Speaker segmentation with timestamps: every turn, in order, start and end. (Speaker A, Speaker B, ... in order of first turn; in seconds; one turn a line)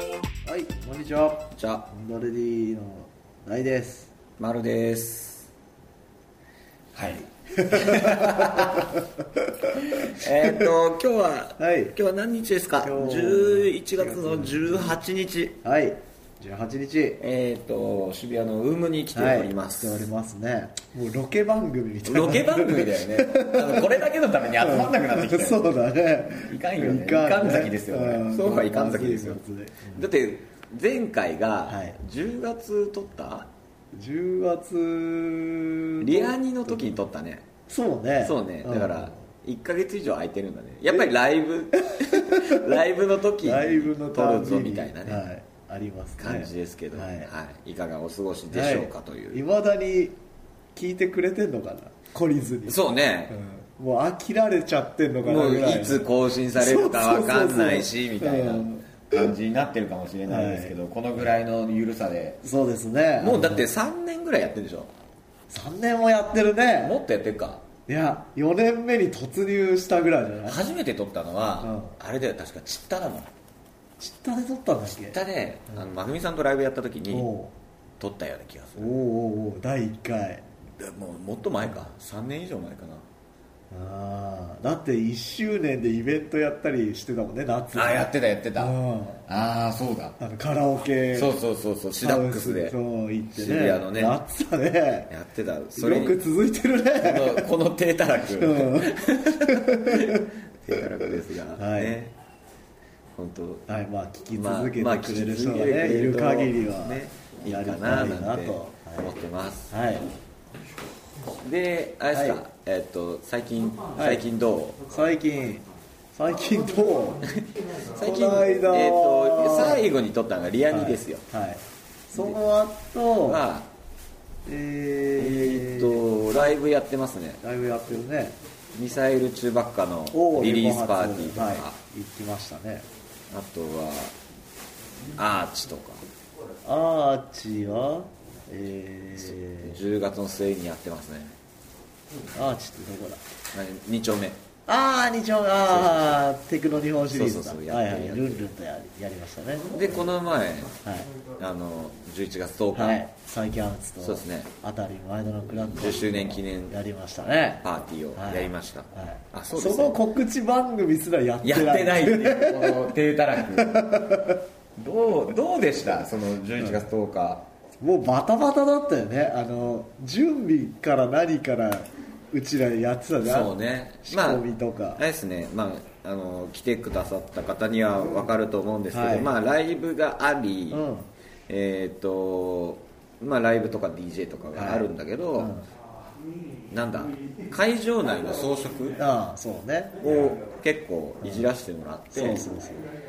Speaker A: 0.5-4.1
Speaker B: 1.5-1.9
Speaker B: 4.4-5.5
Speaker B: 6.9-8.9
Speaker A: 7.6-8.9
Speaker A: 9.6-10.2
Speaker B: 9.8-15.6
Speaker A: 11.6-11.9
Speaker A: 12.8-14.9
Speaker A: 15.6-17.2
Speaker B: 17.2-20.0
Speaker A: 19.1-24.0
Speaker B: 22.1-25.9
Speaker A: 24.6-30.0
Speaker B: 26.4-33.5
Speaker A: 31.7-32.0
Speaker A: 33.9-36.3
Speaker B: 36.0-37.5
Speaker A: 37.7-39.2
Speaker B: 38.2-45.2
Speaker A: 41.9-42.7
Speaker A: 43.4-47.3
Speaker B: 46.2-49.4
Speaker A: 48.5-50.2
Speaker A: 50.8-56.0
Speaker B: 52.6-53.4
Speaker B: 55.2-62.4
Speaker A: 56.5-59.3
Speaker A: 60.3-60.7
Speaker A: 62.4-63.7
Speaker B: 63.2-64.9
Speaker A: 65.5-67.0
Speaker B: 66.8-67.7
Speaker A: 67.9-70.6
Speaker B: 70.5-73.3
Speaker A: 71.6-71.9
Speaker A: 74.0-75.2
Speaker B: 74.9-77.3
Speaker A: 77.1-77.5
Speaker B: 78.0-78.9
Speaker A: 78.8-80.4
Speaker B: 80.8-83.1
Speaker A: 83.7-89.2
Speaker B: 87.7-90.2
Speaker A: 90.2-91.3
Speaker B: 91.1-92.8
Speaker A: 91.9-95.1
Speaker B: 93.3-94.2
Speaker B: 95.1-96.2
Speaker A: 95.7-97.5
Speaker B: 97.0-102.2
Speaker A: 98.3-100.3
Speaker A: 101.6-102.0
Speaker B: 103.2-103.7
Speaker A: 103.7-109.2
Speaker B: 104.3-109.8
Speaker A: 109.7-110.1
Speaker B: 111.3-114.8
Speaker A: 112.1-112.4
Speaker A: 114.0-114.2
Speaker A: 114.9-115.6
Speaker A: 116.2-117.3
Speaker B: 117.3-121.2
Speaker A: 118.0-119.9
Speaker A: 120.7-123.4
Speaker B: 123.2-123.7
Speaker A: 124.5-126.0
Speaker B: 125.2-127.4
Speaker A: 127.4-128.4
Speaker B: 128.7-131.8
Speaker A: 130.1-132.9
Speaker B: 133.3-134.2
Speaker B: 135.1-136.1
Speaker A: 136.7-139.8
Speaker B: 139.2-141.3
Speaker A: 142.3-143.2
Speaker B: 143.5-144.4
Speaker A: 144.7-149.7
Speaker B: 145.7-146.2
Speaker B: 147.0-148.5
Speaker B: 149.7-153.0
Speaker A: 150.8-151.1
Speaker A: 152.7-157.6
Speaker B: 154.0-154.5
Speaker B: 155.5-156.8
Speaker B: 157.6-160.0
Speaker A: 158.2-162.9
Speaker B: 161.4-164.2
Speaker A: 163.5-164.4
Speaker B: 164.8-167.5
Speaker A: 167.8-175.0
Speaker B: 173.2-180.9
Speaker A: 178.9-179.3
Speaker A: 180.7-181.1
Speaker B: 181.5-185.6
Speaker A: 184.5-185.7
Speaker B: 186.7-189.0
Speaker A: 189.0-190.3
Speaker B: 190.0-192.6
Speaker A: 192.1-192.9